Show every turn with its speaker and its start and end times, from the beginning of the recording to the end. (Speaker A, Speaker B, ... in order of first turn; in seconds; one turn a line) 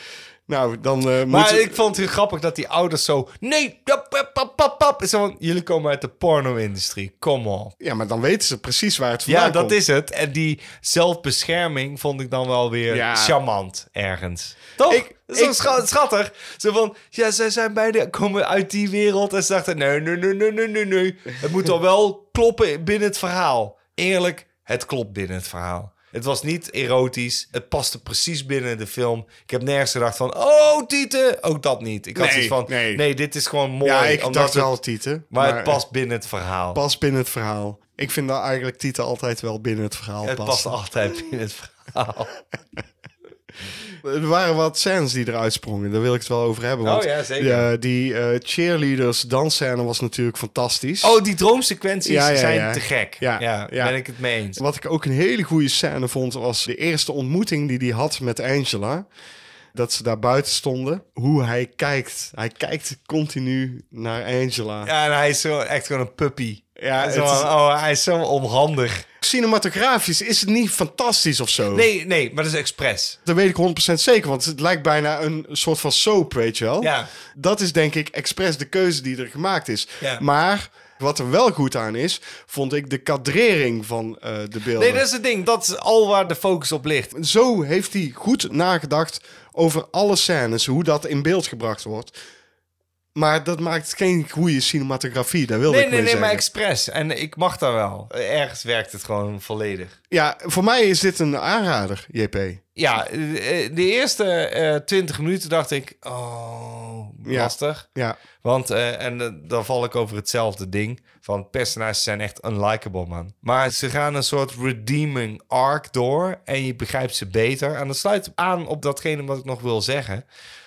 Speaker A: 0.5-1.9
Speaker B: 1.3-7.7
Speaker A: 7.8-9.8
Speaker B: 9.2-34.7
Speaker A: 12.9-13.3
Speaker A: 14.9-15.8
Speaker A: 32.1-33.0
Speaker A: 33.8-35.8
Speaker B: 35.3-36.8
Speaker A: 36.7-40.8
Speaker B: 40.2-42.4
Speaker A: 44.0-51.1
Speaker B: 46.8-47.7
Speaker B: 51.0-54.6
Speaker A: 52.0-54.0
Speaker A: 54.6-59.0
Speaker A: 59.7-64.9
Speaker B: 64.8-69.0
Speaker A: 66.8-67.5
Speaker A: 69.2-71.9
Speaker B: 71.7-73.2
Speaker A: 73.2-85.0
Speaker B: 76.8-77.1
Speaker B: 84.8-87.1
Speaker A: 87.1-92.1
Speaker A: 93.1-96.4
Speaker B: 95.7-100.0
Speaker A: 100.1-102.6
Speaker B: 102.8-107.8
Speaker A: 107.2-108.2
Speaker B: 108.4-120.2